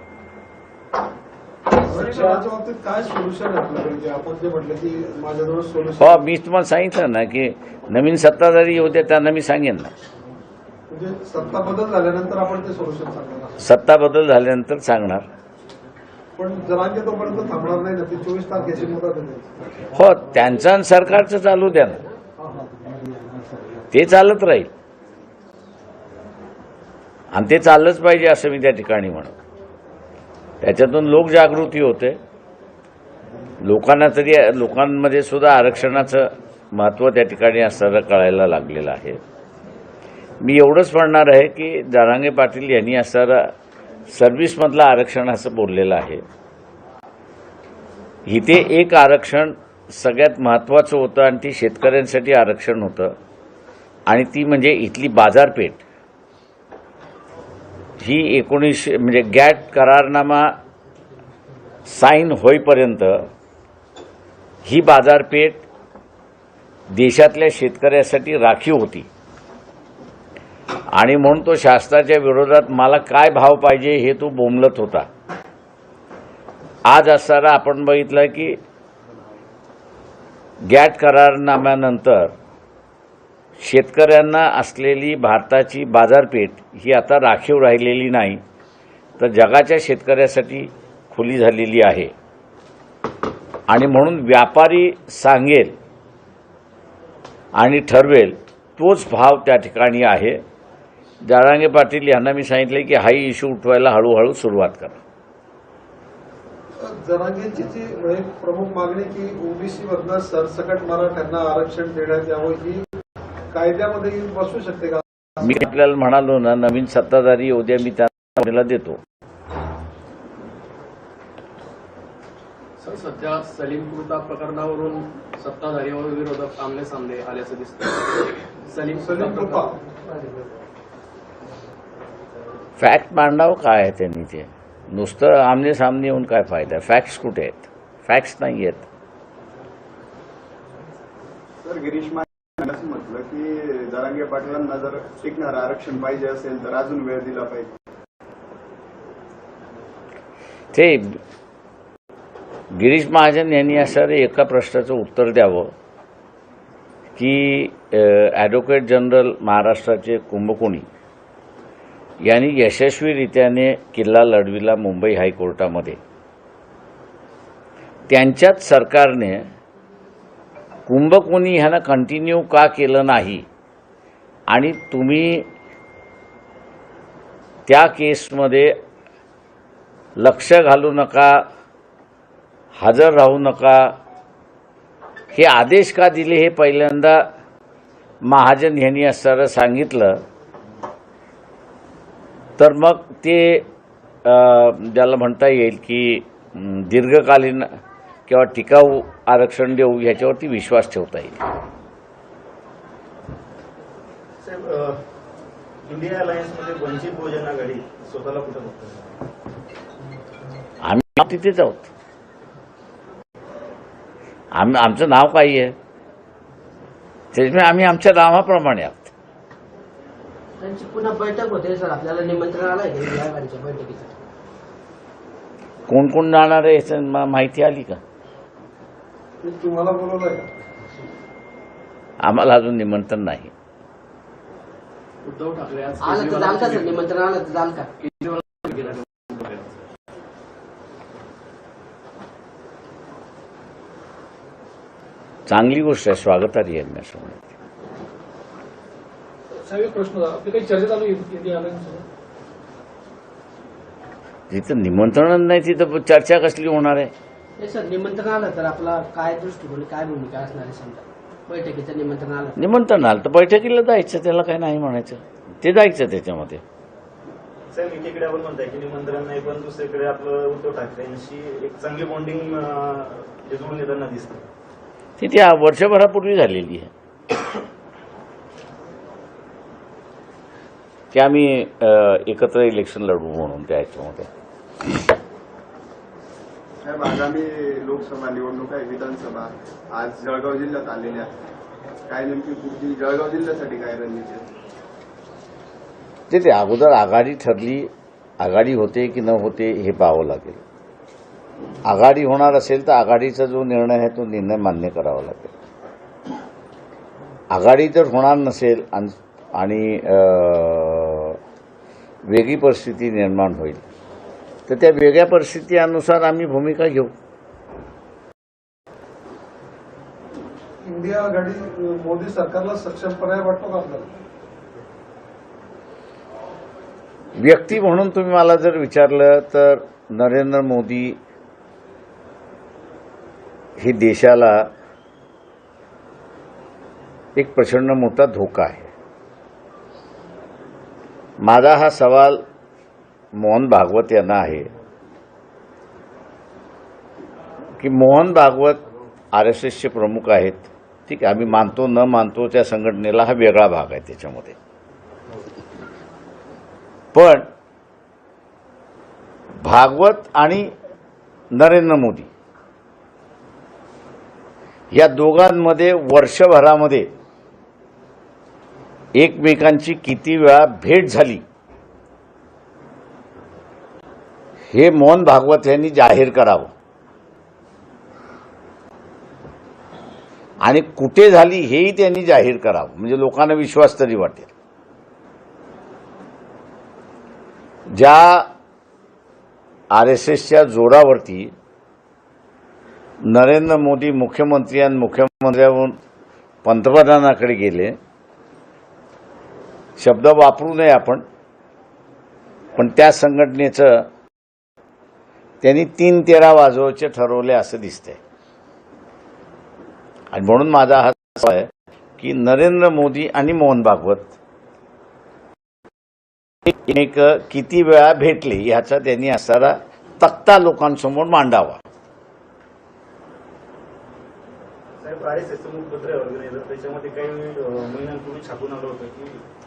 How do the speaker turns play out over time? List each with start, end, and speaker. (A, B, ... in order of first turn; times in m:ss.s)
0:01.7-0:06.2 A
0:06.0-0:09.9 B
0:10.9-0:13.6 A
0:13.6-0:15.3 B
0:16.4-0:19.6 A
0:19.9-0:22.0 B
0:22.4-0:23.0 A
0:23.9-0:24.7 B
0:27.3-0:29.4 B
0:30.6-0:32.2 B
0:33.6-0:39.2 B
0:40.4-0:43.5 B
0:44.1-0:46.2 B
0:48.3-0:53.2 B
0:54.1-0:55.8 B
0:58.0-1:00.6 B
1:01.9-1:03.3 B
1:04.6-1:05.6 B
1:06.9-1:09.1 B
1:10.9-1:15.1 B
1:16.9-1:18.6 B
1:20.7-1:22.3 B
1:23.6-1:28.4 B
1:29.2-1:32.1 B
1:33.7-1:35.8 B
1:37.6-1:40.4 B
1:41.2-1:45.0 B
1:46.8-1:52.9 A
1:53.5-1:55.0 A
1:55.4-1:59.0 B
2:02.8-2:09.7 C
2:09.0-2:09.8 A
2:12.8-2:18.9 B
2:21.6-2:27.7 D
2:30.7-2:31.2 B
2:32.7-2:35.7 B
2:37.2-2:40.9 B
2:42.2-2:46.0 B
2:48.1-2:49.5 B
2:50.9-2:53.4 B
2:54.5-2:55.5 B
2:57.7-2:58.8 B
3:00.2-3:01.4 B
3:02.8-3:03.9 B
3:05.3-3:07.3 B
3:08.2-3:10.2 B
3:12.6-3:13.7 B
3:14.2-3:17.7 B
3:18.3-3:21.4 B
3:24.4-3:25.0 E
3:25.9-3:29.2 E
3:30.8-3:31.9 B
3:34.5-3:35.8 B
3:37.3-3:39.1 B
3:40.6-3:44.1 F
3:45.9-3:48.0 B
3:49.4-3:50.5 A
3:52.2-3:53.5 B
3:55.2-3:57.0 C
3:56.0-3:57.9 F
3:58.0-3:59.7 C
4:05.5-4:07.5 B
4:09.6-4:12.0 G
4:14.5-4:17.1 B
4:17.6-4:22.7 F
4:22.6-4:26.6 B
4:27.7-4:34.5 E
4:35.2-4:36.9 B
4:41.1-4:44.3 B
4:46.8-4:51.3 D
4:52.1-4:54.5 D
4:56.3-5:00.6 B
5:01.8-5:05.5 B
5:07.5-5:11.4 B
5:12.3-5:13.8 B
5:14.7-5:17.1 B
5:20.8-5:24.1 A
5:27.4-5:31.2 B
5:33.8-5:34.7 B
5:37.4-5:38.9 B
5:41.4-5:42.4 B
5:43.4-5:44.7 B
5:47.8-5:48.8 B
5:49.3-5:54.6 B
5:57.1-5:57.5 B
5:59.6-6:00.7 B
6:01.5-6:02.3 B
6:04.9-6:07.1 B
6:09.2-6:11.4 B
6:14.7-6:16.7 B
6:20.6-6:24.5 B
6:27.9-6:28.5 B
6:29.9-6:31.5 B
6:33.2-6:36.0 B
6:36.6-6:38.0 B
6:40.0-6:41.2 B
6:42.8-6:44.1 B
6:45.6-6:48.2 B
6:50.3-6:54.3 B
6:56.7-7:01.8 B
7:05.0-7:09.4 E